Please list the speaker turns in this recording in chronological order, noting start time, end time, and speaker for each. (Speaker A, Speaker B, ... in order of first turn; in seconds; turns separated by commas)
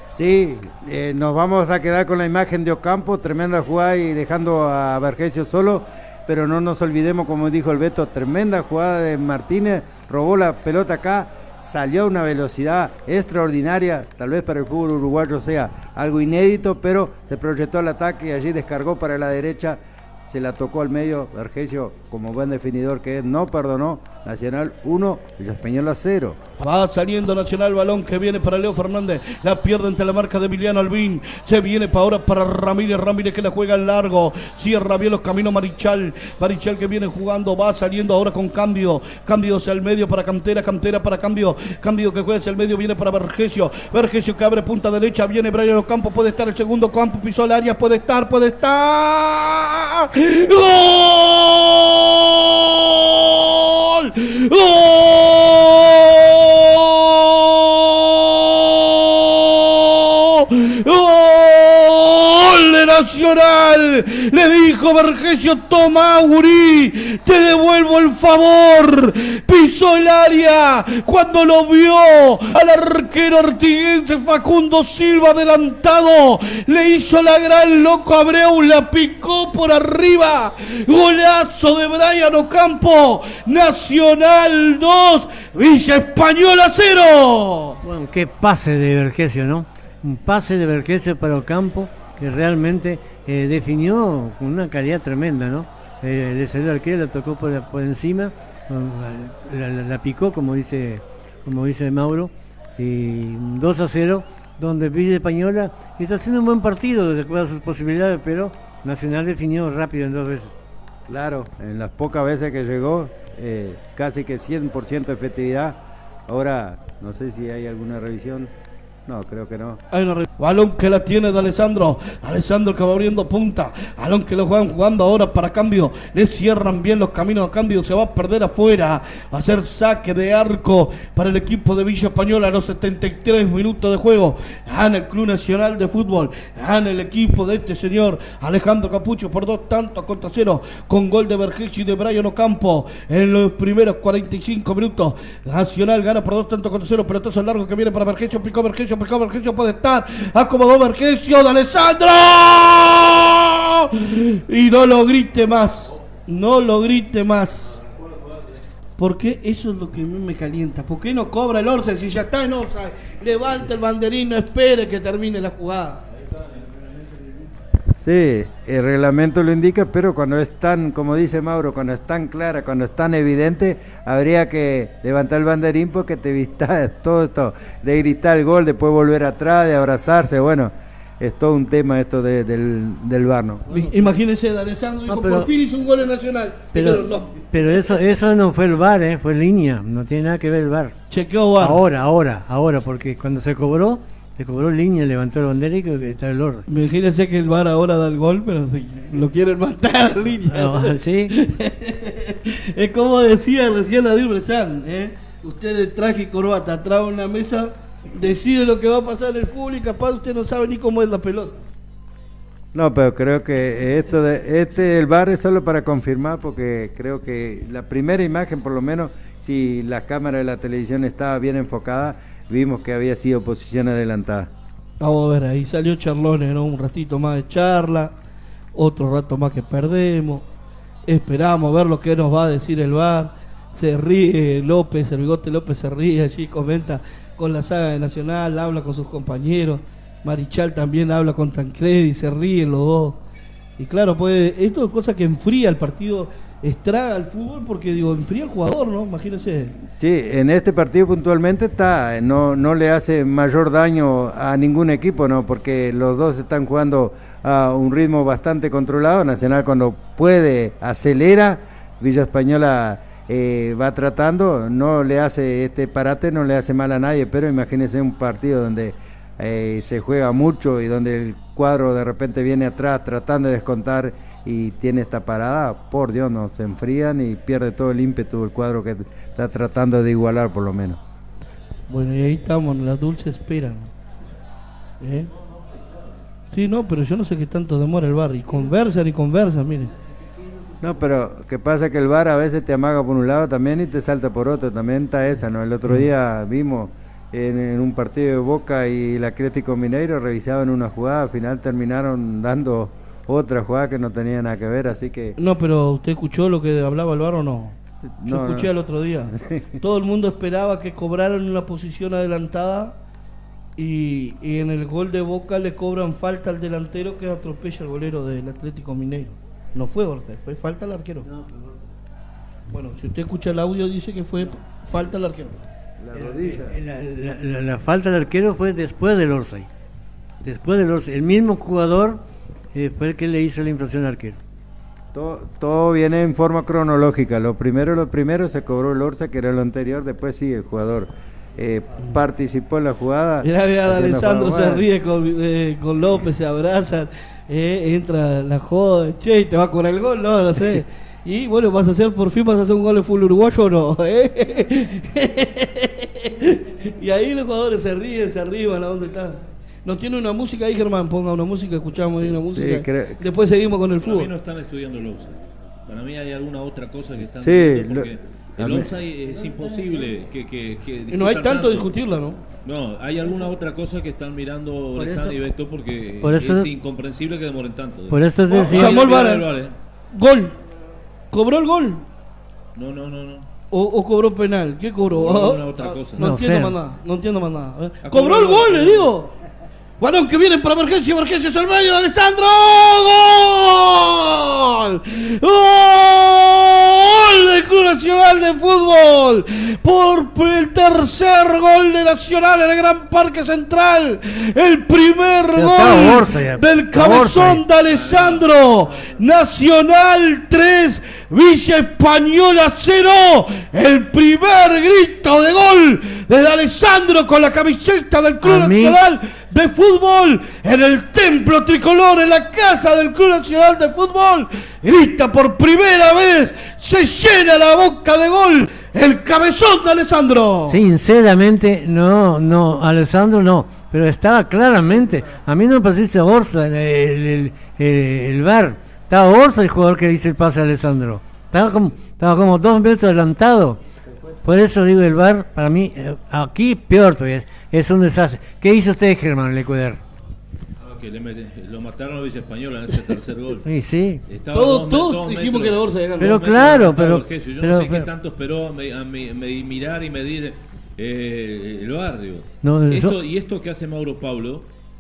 Speaker A: 0.1-26.4, Speaker B: 26.6-87.8, Speaker C: 87.8-110.5, Speaker A: 111.1-115.8, Speaker A: 116.3-118.5, Speaker A: 119.1-119.8, Speaker B: 119.9-157.8, Speaker B: 159.0-166.0, Speaker A: 168.0-183.7, Speaker B: 183.7-188.0, Speaker C: 185.1-185.5, Speaker C: 186.7-190.9, Speaker B: 191.1-191.8, Speaker C: 191.6-196.7, Speaker B: 196.7-211.5, Speaker C: 200.4-201.3, Speaker A: 212.7-224.5, Speaker B: 225.0-228.1, Speaker B: 228.8-230.5, Speaker B: 231.1-243.2, Speaker B: 243.8-249.8, Speaker A: 250.0-281.0, Speaker B: 281.9-283.9, Speaker B: 285.0-285.3, Speaker B: 286.5-289.9, Speaker A: 290.8-305.4, Speaker B: 305.4-312.9, Speaker A: 308.2-308.7, Speaker A: 309.3-309.8, Speaker B: 313.8-321.3, Speaker C: 321.3-321.8, Speaker B: 322.7-325.6, Speaker A: 326.0-326.8, Speaker C: 326.1-329.7, Speaker C: 330.4-332.2, Speaker C: 332.7-334.4, Speaker A: 335.1-344.9, Speaker B: 343.4-364.3, Speaker A: 362.4-363.2, Speaker D: 364.0-371.9, Speaker A: 367.4-368.9, Speaker B: 371.1-372.4, Speaker D: 372.6-379.8, Speaker C: 375.0-375.4, Speaker C: 376.2-376.7, Speaker C: 378.1-379.0, Speaker B: 378.5-379.5, Speaker B: 380.1-380.6, Speaker B: 381.3-382.1, Speaker D: 382.8-383.5, Speaker B: 383.7-389.3, Speaker D: 385.1-386.3, Speaker C: 386.2-386.8, Speaker D: 388.0-389.1, Speaker B: 390.0-430.8, Speaker C: 405.6-407.6, Speaker D: 407.8-408.5, Speaker C: 418.4-419.0, Speaker C: 430.7-443.8, Speaker C: 444.4-450.0, Speaker D: 450.8-453.7, Speaker C: 453.6-454.2, Speaker D: 454.3-464.7, Speaker B: 454.5-456.4, Speaker C: 456.2-458.1, Speaker C: 462.6-463.1